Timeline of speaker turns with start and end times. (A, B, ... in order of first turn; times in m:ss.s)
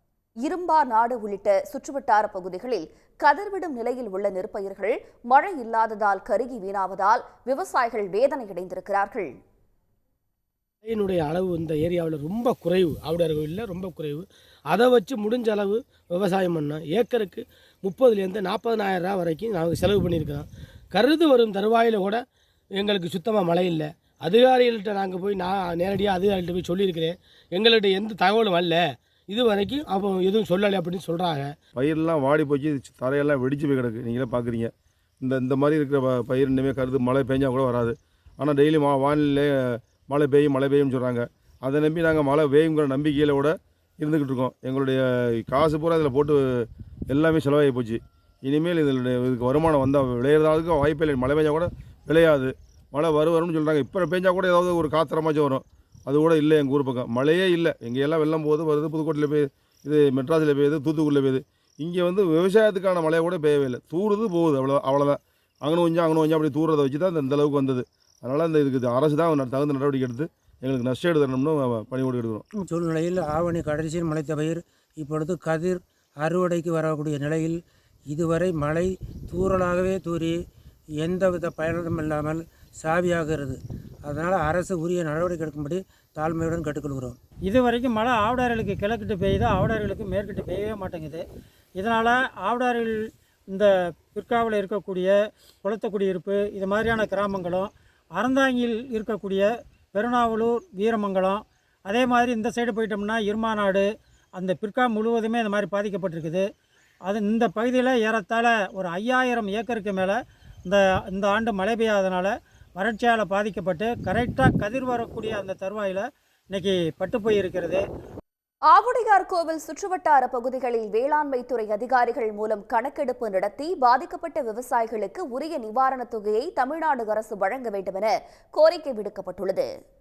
0:00.4-0:09.3 A
0:10.8-0:22.2 B
0:22.8-0:31.5 B
0:31.7-1:12.4 C
1:12.6-1:20.4 D
1:21.0-1:27.2 D
1:27.5-1:31.2 E
1:31.8-1:35.1 E
1:35.6-1:46.4 E
1:47.1-1:57.8 E
1:58.7-2:09.7 A